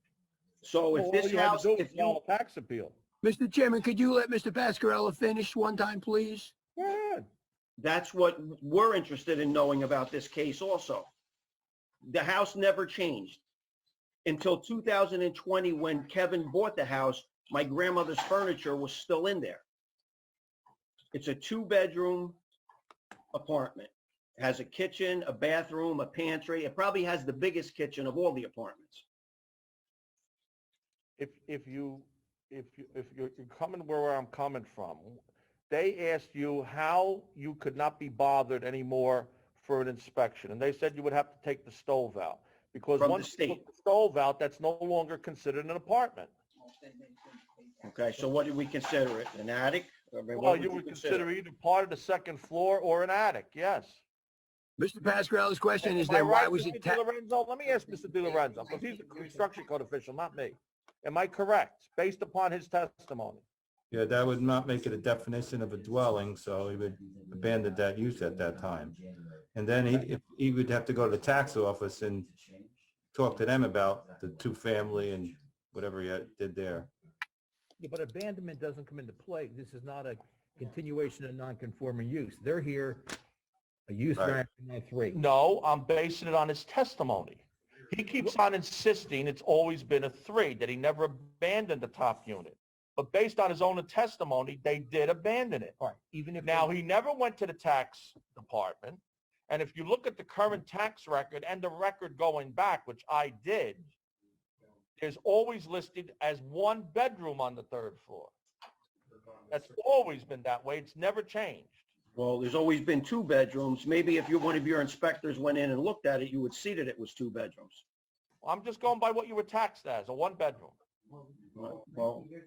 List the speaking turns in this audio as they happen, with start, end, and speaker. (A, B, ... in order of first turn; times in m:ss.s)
0:00.6-0:02.2 A
0:00.9-0:03.0 B
0:03.2-0:06.5 C
0:06.8-0:07.3 B
0:07.8-0:11.1 A
0:12.0-0:13.4 A
0:14.2-0:19.6 A
0:21.1-0:22.4 A
0:23.3-0:29.0 A
0:31.2-0:46.3 B
0:43.0-0:43.6 A
0:47.8-0:51.3 A
0:50.3-0:54.0 B
0:54.8-0:57.0 C
0:55.8-1:03.4 B
1:03.9-1:09.0 D
1:09.5-1:12.3 D
1:13.1-1:16.9 D
1:17.8-1:23.1 E
1:23.9-1:25.2 E
1:24.2-1:24.4 D
1:25.1-1:35.8 B
1:35.8-1:36.7 E
1:36.4-1:43.9 B
1:45.0-1:48.3 B
1:49.5-1:51.8 B
1:52.2-1:57.8 A
1:58.4-2:00.8 B
2:01.6-2:02.3 A